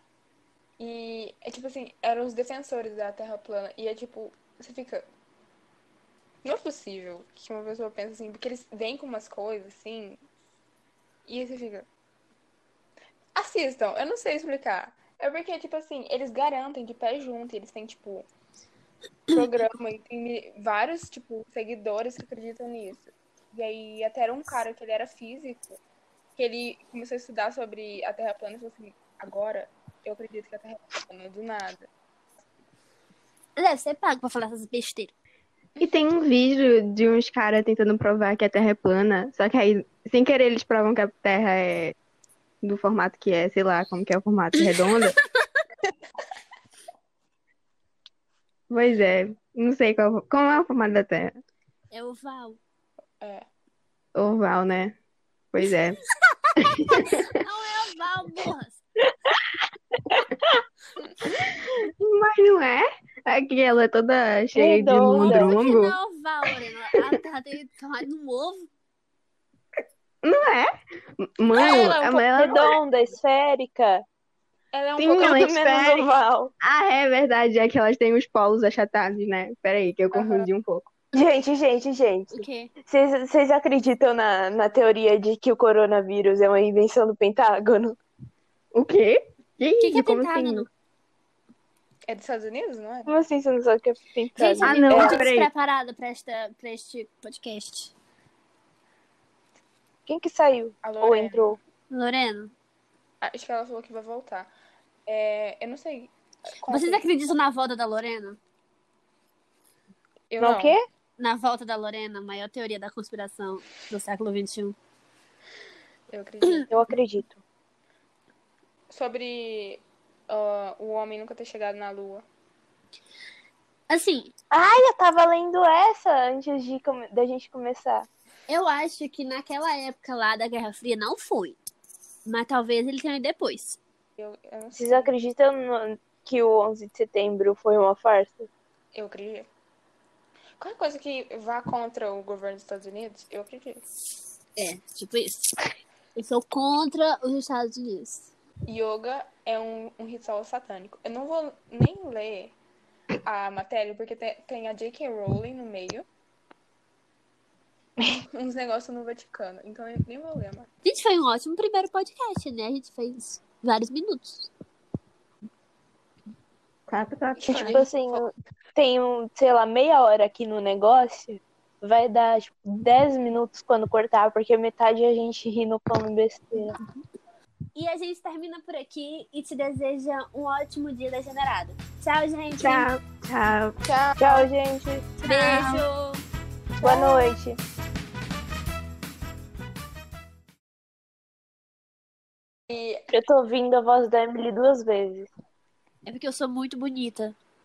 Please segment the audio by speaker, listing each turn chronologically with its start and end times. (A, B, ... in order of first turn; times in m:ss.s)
0:00.8-0:05.1 A
0:06.4-0:10.2 A
0:11.3-0:11.9 A
0:13.4-0:18.3 A
0:19.3-0:25.8 A
0:26.4-0:31.9 A
0:33.6-0:35.1 B
0:35.8-0:42.0 C
0:42.6-0:45.2 C
0:48.7-0:51.4 C
0:51.9-0:52.6 B
0:53.2-0:53.5 A
0:54.1-0:55.0 C
0:55.5-0:56.0 C
0:56.8-0:57.1 C
0:56.9-0:58.8 B
1:01.4-1:06.0 C
1:04.5-1:05.6 D
1:05.3-1:08.7 B
1:10.2-1:12.8 C
1:11.5-1:12.2 B
1:11.6-1:12.0 A
1:11.6-1:14.0 D
1:14.7-1:15.4 A
1:15.0-1:16.1 C
1:15.1-1:16.5 D
1:16.6-1:20.9 C
1:20.1-1:20.5 A
1:21.1-1:28.0 D
1:22.3-1:22.7 B
1:28.7-1:30.7 C
1:29.8-1:30.7 B
1:32.1-1:33.1 A
1:33.1-1:35.2 D
1:34.4-1:37.9 B
1:34.6-1:35.5 C
1:40.1-1:41.6 D
1:40.8-1:41.6 A
1:41.9-1:42.5 B
1:43.2-1:44.5 A
1:45.1-1:47.1 A
1:46.7-1:48.4 B
1:50.3-1:50.8 A
1:50.4-1:50.8 D
1:51.2-1:54.8 B
1:56.1-1:56.7 A
1:56.7-1:57.4 D
1:58.9-2:02.2 A
2:03.9-2:04.3 B
2:04.5-2:08.0 D
2:08.5-2:11.6 B
2:12.2-2:13.8 B
2:14.2-2:15.1 A
2:14.7-2:18.5 D
2:18.9-2:19.5 A
2:20.6-2:23.8 A
2:24.6-2:25.6 B
2:26.1-2:28.3 B
2:28.6-2:32.6 A
2:33.2-2:36.0 A
2:38.3-2:40.7 A
2:40.8-2:44.5 B
2:46.9-2:47.8 C
2:47.4-2:48.3 A
2:47.5-2:56.7 D
2:57.7-3:02.9 B
3:02.6-3:03.8 C
3:03.8-3:04.5 A
3:04.2-3:05.8 D
3:05.2-3:06.2 B
3:06.8-3:07.3 B
3:06.8-3:07.6 D
3:12.7-3:13.1 A
3:13.1-3:15.3 D
3:16.0-3:17.4 B